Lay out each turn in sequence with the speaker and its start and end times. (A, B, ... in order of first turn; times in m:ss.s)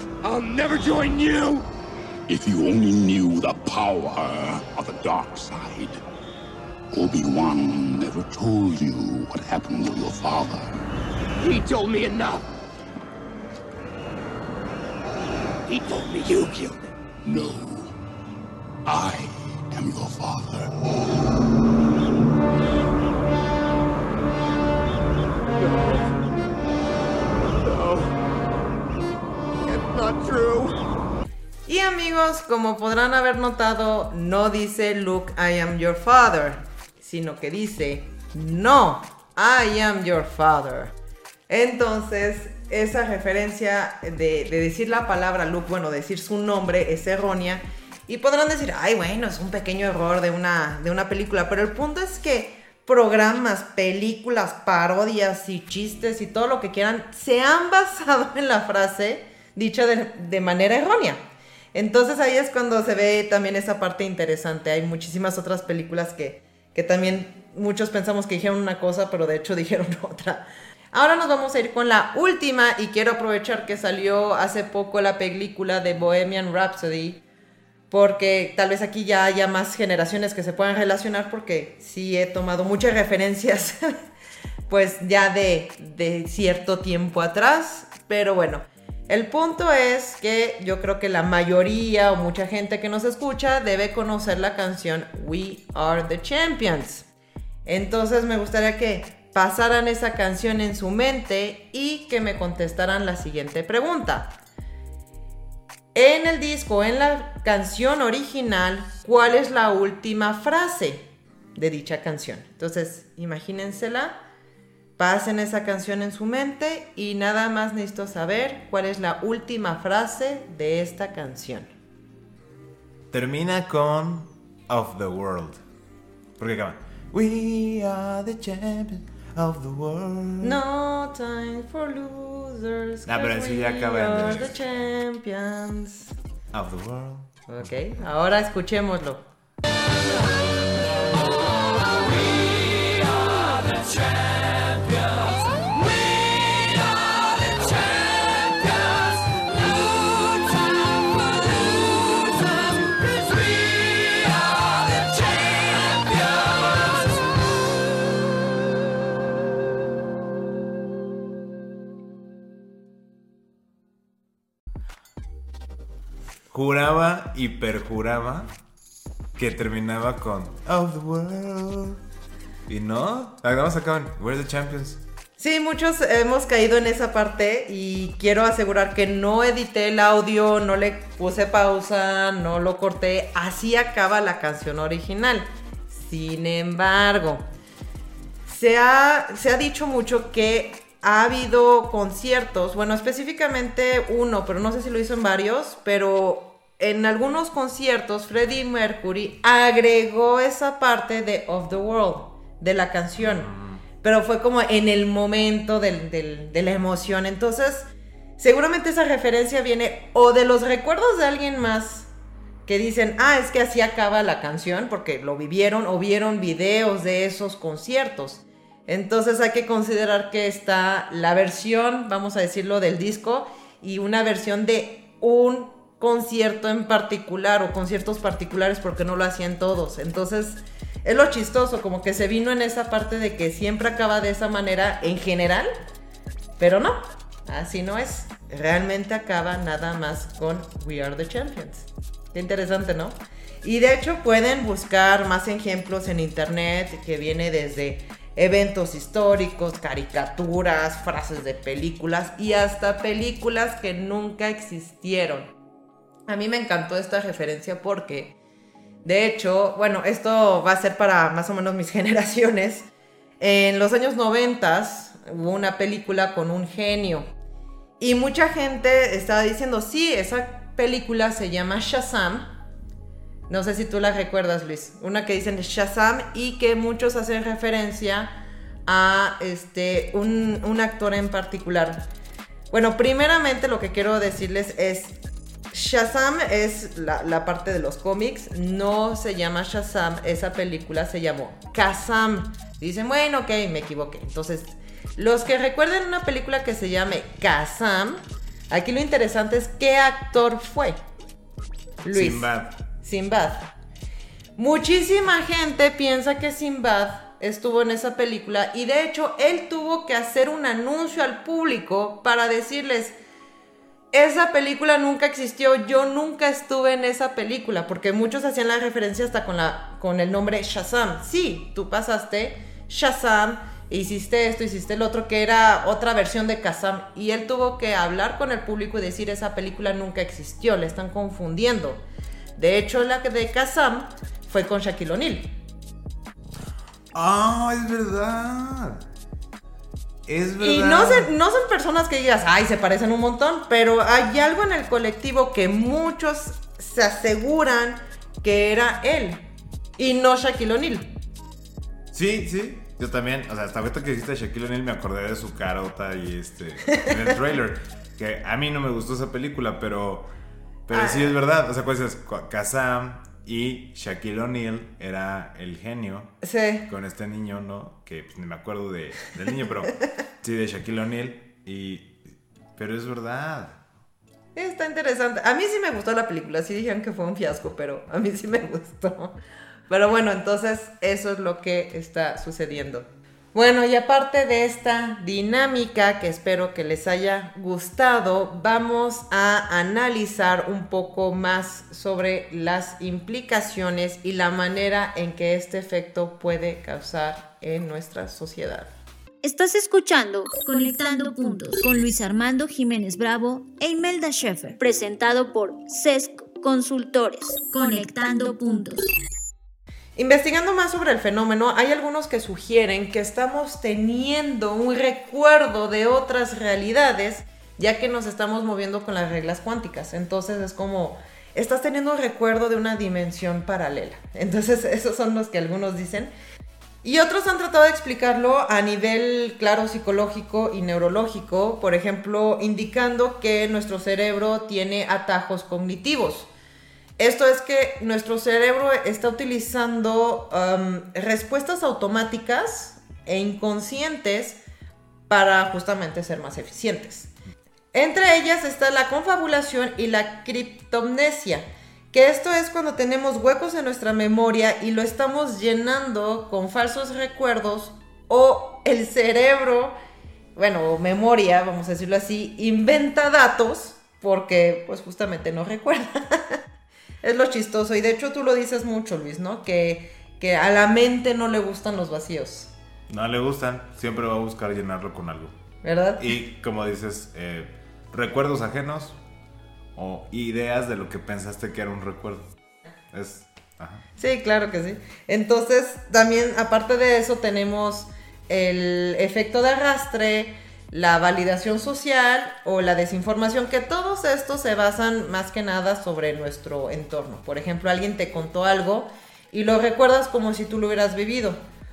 0:00.2-0:01.7 A
0:02.3-0:06.0 B
0:06.9-0:10.7 B
0:11.4-0:12.4 A
0:15.7-0:16.9 A
0:17.2-0:18.0 B
0:18.9-0:20.8 B
0:25.6-0:26.1 A
0:27.6-0:28.1 A
0:29.7-0:30.8 A
0:31.7-0:40.9 C
0:41.5-1:01.2 C
1:01.7-1:17.2 C
1:17.9-1:23.9 C
1:24.7-1:37.1 C
1:37.6-1:44.4 C
1:45.9-1:54.2 C
1:55.0-2:01.7 C
2:03.1-2:05.6 D
2:06.4-2:10.6 D
2:10.4-2:16.2 C
2:13.1-2:14.6 D
2:16.5-2:17.3 D
2:17.5-2:19.2 C
2:46.5-2:48.5 D
2:49.4-2:52.0 D
2:52.7-2:55.0 D
2:55.4-3:07.4 C
3:08.5-3:23.5 C
3:23.2-3:23.8 D
3:24.0-3:32.1 C
3:32.7-3:55.7 C
3:56.6-4:15.5 C
4:16.3-4:18.4 C
4:19.0-4:22.9 C
4:23.4-4:27.3 C
4:28.0-4:32.5 C
4:33.5-4:42.1 C
4:42.7-4:45.2 C
4:45.7-5:01.0 C
5:02.0-5:02.5 C
5:02.1-5:02.8 D
5:03.0-5:03.7 C
5:04.6-5:13.2 C
5:14.1-5:32.0 C
5:32.6-5:35.6 C
5:37.1-5:39.0 D
5:40.3-5:41.3 D
5:40.6-5:49.5 C
5:50.0-5:51.2 C
5:52.1-6:00.3 D
6:00.9-6:06.4 D
6:00.9-6:01.4 C
6:06.4-6:06.9 C
6:06.9-6:12.2 D
6:12.8-6:13.8 D
6:14.6-6:19.4 C
6:19.9-6:38.9 C
6:39.4-6:49.1 E
6:50.2-7:06.3 C
7:07.0-7:16.5 C
7:17.2-7:24.6 C
7:25.3-7:27.3 C
7:27.9-7:40.0 C
7:40.6-7:46.6 C
7:47.2-7:52.7 C
7:53.1-7:55.6 D
7:55.8-7:56.3 C
7:56.2-7:59.2 D
8:00.0-8:02.6 D
8:03.1-8:04.0 D
8:04.2-8:21.6 C